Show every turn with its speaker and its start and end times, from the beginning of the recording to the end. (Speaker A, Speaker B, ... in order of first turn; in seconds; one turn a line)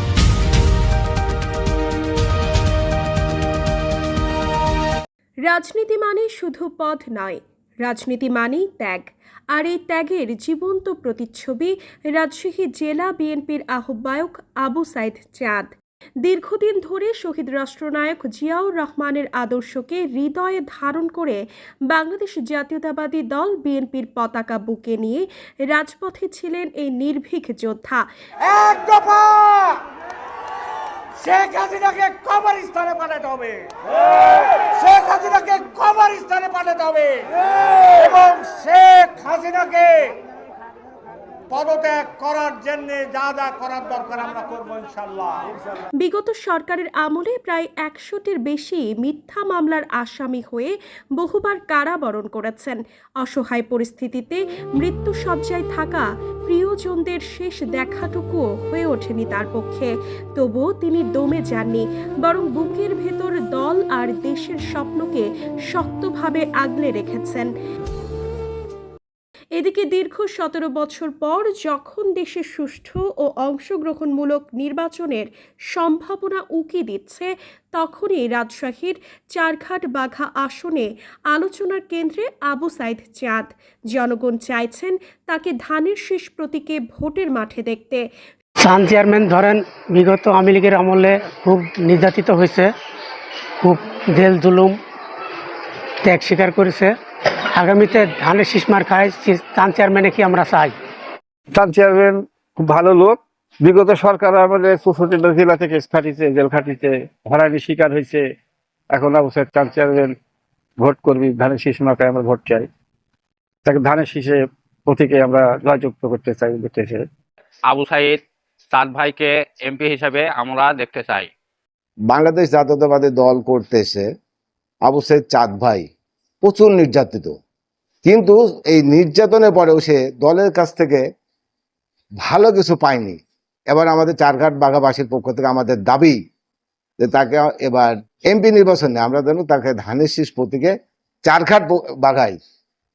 Speaker A: 5.5-15.7
Speaker A: 16.2-28.0
Speaker B: 28.4-29.8
Speaker B: 31.2-33.7
Speaker B: 34.2-40.1
Speaker B: 41.5-45.5
Speaker A: 46.0-67.5
Speaker A: 69.6-88.0
Speaker C: 88.6-92.7
Speaker C: 93.6-94.8
Speaker C: 96.0-97.0
Speaker C: 97.5-100.8
Speaker D: 101.5-108.2
Speaker D: 108.9-110.2
Speaker D: 110.8-112.7
Speaker D: 113.6-117.1
Speaker E: 117.7-121.3
Speaker F: 122.1-124.1
Speaker F: 124.8-125.9
Speaker F: 126.4-127.3
Speaker F: 128.0-131.0
Speaker F: 132.2-136.2
Speaker F: 137.0-140.7
Speaker F: 141.2-142.4